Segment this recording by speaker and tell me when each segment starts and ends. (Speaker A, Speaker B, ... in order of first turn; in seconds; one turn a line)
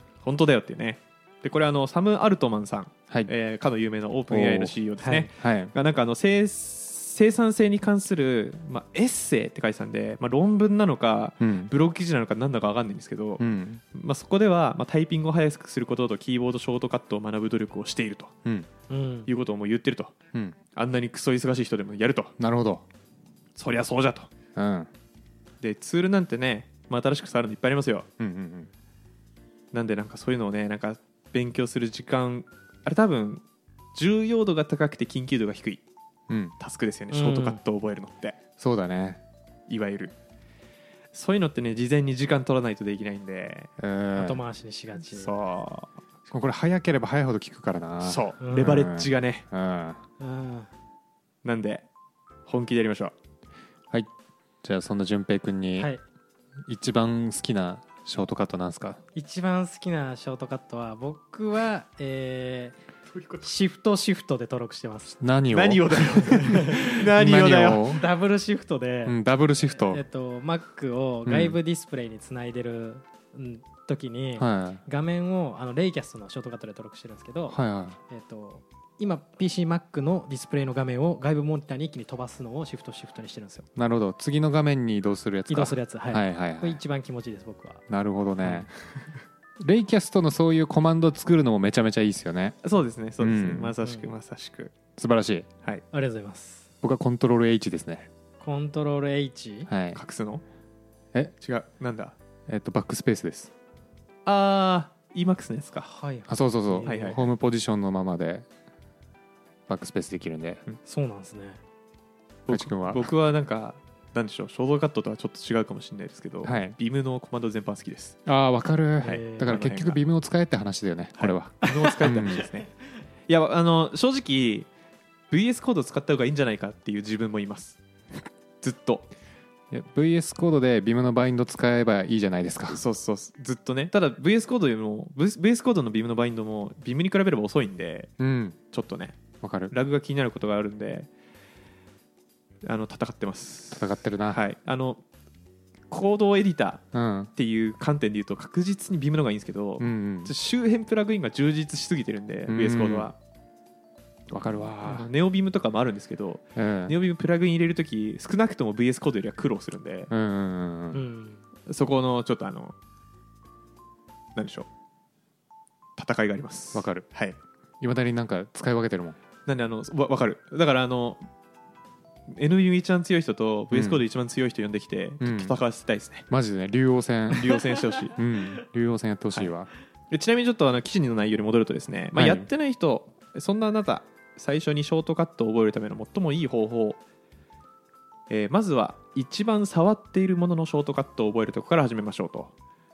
Speaker A: 0.2-18.3
Speaker B: 4.3-4.7
Speaker C: 5.0-5.3
Speaker B: 5.3-5.7
Speaker B: 11.4-11.7
Speaker B: 13.4-13.8
Speaker B: 18.4-18.7
Speaker C: 18.9-19.3
Speaker A: 19.3-20.1
Speaker A: 20.7-22.3
Speaker B: 22.4-22.8
Speaker A: 23.6-24.3
Speaker B: 24.5-24.9
Speaker A: 25.6-28.1
Speaker B: 28.2-28.7
Speaker A: 29.7-35.8
Speaker B: 36.3-36.5
Speaker A: 36.6-38.4
Speaker C: 37.1-37.6
Speaker B: 38.6-39.2
Speaker A: 39.7-40.1
Speaker A: 41.1-43.7
Speaker B: 43.8-44.4
Speaker C: 44.1-45.4
Speaker A: 45.0-45.9
Speaker B: 46.3-50.0
Speaker A: 48.0-49.4
Speaker C: 48.4-48.9
Speaker C: 50.2-50.7
Speaker A: 51.4-51.9
Speaker A: 52.5-53.1
Speaker B: 54.6-55.9
Speaker B: 56.6-59.0
Speaker C: 59.1-62.8
Speaker A: 63.1-63.4
Speaker C: 63.4-65.2
Speaker B: 65.2-66.3
Speaker A: 65.5-68.0
Speaker C: 66.3-67.0
Speaker B: 66.9-68.0
Speaker C: 67.9-83.7
Speaker B: 69.0-70.0
Speaker B: 71.2-71.6
Speaker B: 74.4-74.8
Speaker B: 77.5-78.0
Speaker B: 83.8-86.8
Speaker C: 85.5-87.8
Speaker B: 87.9-88.7
Speaker B: 89.6-92.6
Speaker A: 92.6-94.7
Speaker B: 93.2-93.7
Speaker C: 93.8-94.1
Speaker B: 95.0-95.5
Speaker C: 95.9-96.7
Speaker B: 96.8-98.1
Speaker C: 98.4-99.7
Speaker B: 99.7-100.0
Speaker A: 99.9-100.4
Speaker A: 101.4-102.2
Speaker B: 102.5-103.5
Speaker A: 104.2-105.9
Speaker C: 105.8-107.2
Speaker B: 106.3-108.5
Speaker A: 106.8-107.2
Speaker B: 109.7-110.6
Speaker C: 110.8-111.6
Speaker A: 112.5-118.2
Speaker B: 112.5-113.1
Speaker B: 116.4-116.8
Speaker B: 118.2-122.5
Speaker C: 119.0-119.6
Speaker A: 119.4-120.0
Speaker A: 121.2-122.7
Speaker A: 123.3-124.7
Speaker A: 125.3-127.8
Speaker A: 128.6-129.1
Speaker B: 129.7-132.8
Speaker A: 132.7-138.1
Speaker B: 138.2-138.6
Speaker A: 138.7-141.1
Speaker B: 139.4-139.7
Speaker A: 142.6-145.0
Speaker B: 143.7-144.4
Speaker A: 145.9-146.8
Speaker B: 146.9-147.3
Speaker A: 147.3-153.2
Speaker B: 149.8-150.3
Speaker B: 152.5-153.1
Speaker B: 154.3-155.1
Speaker A: 154.8-160.1
Speaker B: 156.6-156.9
Speaker B: 160.1-161.0
Speaker C: 160.9-161.4
Speaker A: 161.7-162.7
Speaker A: 164.3-164.7
Speaker A: 166.0-167.4
Speaker B: 166.7-167.1
Speaker B: 167.8-169.2
Speaker A: 169.4-171.2
Speaker A: 172.3-176.2
Speaker B: 173.7-174.0
Speaker B: 175.2-175.6
Speaker B: 176.3-179.7
Speaker A: 177.3-178.2
Speaker A: 180.1-187.0
Speaker B: 182.1-182.5
Speaker A: 188.3-192.5